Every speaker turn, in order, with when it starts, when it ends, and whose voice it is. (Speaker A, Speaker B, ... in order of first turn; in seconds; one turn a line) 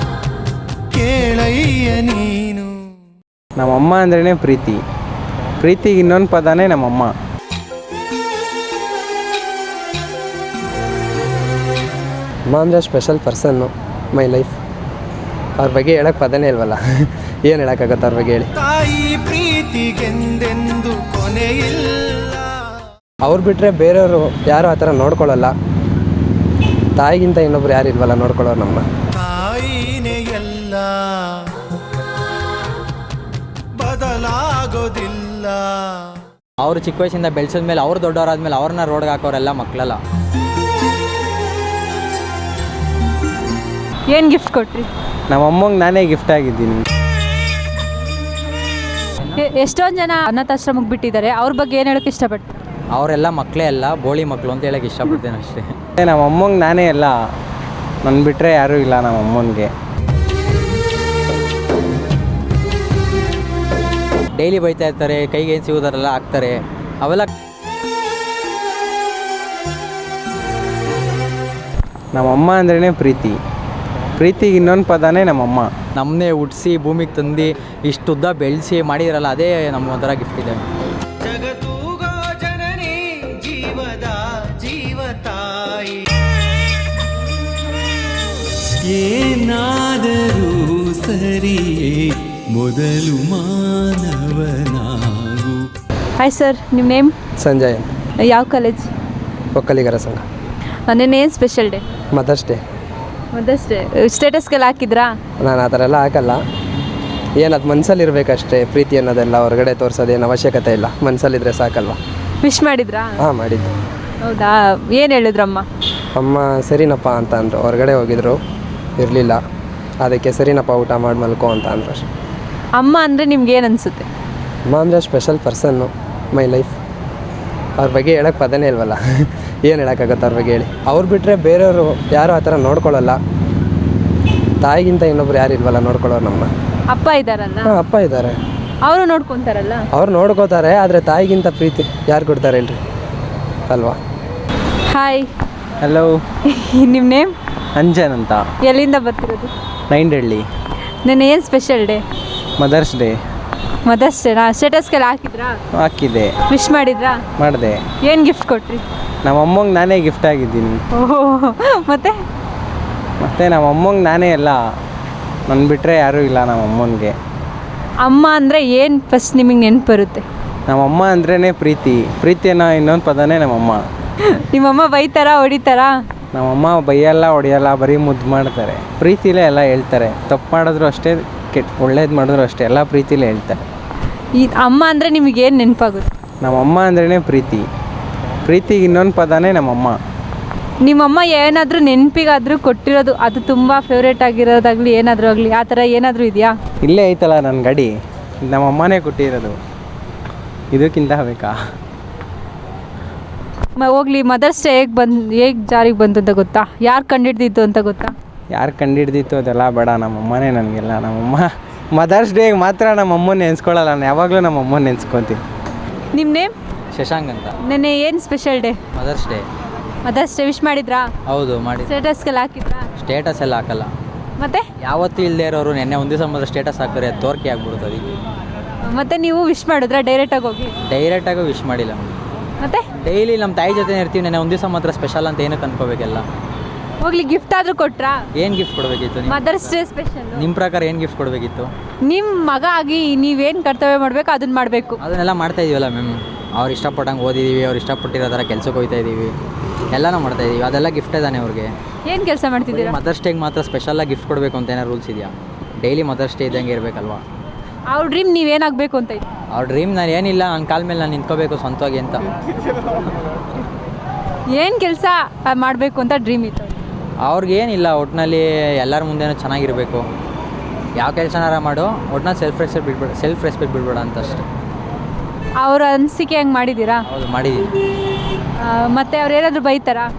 Speaker A: 0.9-2.7
Speaker B: 3.6-4.8
Speaker B: 5.6-7.1
Speaker C: 12.5-14.5
Speaker C: 15.6-18.5
Speaker A: 18.6-22.5
Speaker C: 23.2-25.5
Speaker C: 27.0-28.8
Speaker A: 29.1-31.2
Speaker A: 33.8-35.8
Speaker D: 36.6-40.0
Speaker E: 44.1-44.9
Speaker B: 45.3-46.9
Speaker E: 49.4-52.5
Speaker D: 52.9-55.8
Speaker B: 56.0-57.2
Speaker B: 58.0-59.7
Speaker D: 64.4-67.3
Speaker B: 72.1-73.4
Speaker B: 74.2-75.7
Speaker D: 76.0-80.6
Speaker A: 81.2-86.0
Speaker A: 88.8-95.6
Speaker E: 96.2-97.1
Speaker C: 97.4-97.9
Speaker E: 98.3-98.9
Speaker C: 99.5-100.2
Speaker E: 100.9-101.8
Speaker C: 102.1-102.6
Speaker E: 103.3-105.1
Speaker C: 105.4-106.4
Speaker C: 107.4-112.0
Speaker E: 112.4-113.2
Speaker C: 113.2-113.7
Speaker E: 114.2-115.7
Speaker C: 116.2-118.4
Speaker C: 119.0-119.4
Speaker C: 120.0-122.0
Speaker E: 122.8-124.1
Speaker C: 124.7-126.8
Speaker C: 127.8-133.2
Speaker C: 134.6-136.5
Speaker E: 136.9-137.7
Speaker C: 137.6-138.4
Speaker E: 138.8-139.9
Speaker C: 139.9-142.8
Speaker C: 143.7-144.0
Speaker E: 144.9-145.3
Speaker B: 145.8-146.2
Speaker E: 146.5-147.3
Speaker B: 147.8-148.4
Speaker E: 148.7-149.5
Speaker B: 149.9-150.5
Speaker E: 151.1-152.0
Speaker B: 152.6-153.2
Speaker E: 153.9-155.5
Speaker B: 155.8-156.3
Speaker E: 156.5-157.2
Speaker B: 157.4-157.8
Speaker E: 158.0-158.8
Speaker B: 159.2-160.8
Speaker E: 160.9-162.1
Speaker B: 163.2-164.6
Speaker B: 165.5-167.2
Speaker E: 168.0-170.2
Speaker B: 170.7-173.8
Speaker E: 174.3-175.9
Speaker B: 176.3-183.6
Speaker E: 184.4-186.1
Speaker B: 186.4-187.7
Speaker B: 188.4-190.0
Speaker E: 190.8-196.5
Speaker B: 196.8-199.6
Speaker B: 200.7-201.6
Speaker E: 203.8-208.1
Speaker B: 208.5-215.4
Speaker E: 216.1-216.5
Speaker D: 216.9-217.5
Speaker E: 217.7-218.8
Speaker D: 218.9-219.4
Speaker E: 220.1-221.1
Speaker D: 221.3-221.9
Speaker E: 221.8-222.9
Speaker D: 223.0-223.9
Speaker E: 224.4-224.7
Speaker D: 224.8-228.1
Speaker E: 228.9-230.7
Speaker D: 230.8-232.2
Speaker E: 232.6-232.9
Speaker D: 233.0-236.2
Speaker E: 237.0-238.3
Speaker D: 238.3-239.5
Speaker E: 239.3-240.5
Speaker D: 240.3-241.7
Speaker E: 242.1-245.0
Speaker D: 245.0-249.3
Speaker D: 249.9-251.7
Speaker E: 252.1-253.0
Speaker D: 252.7-257.2
Speaker E: 257.9-259.2
Speaker D: 259.5-262.2
Speaker E: 264.5-266.8
Speaker D: 267.2-270.1
Speaker D: 271.0-274.4
Speaker E: 275.6-277.1
Speaker D: 277.1-277.8
Speaker E: 278.6-280.1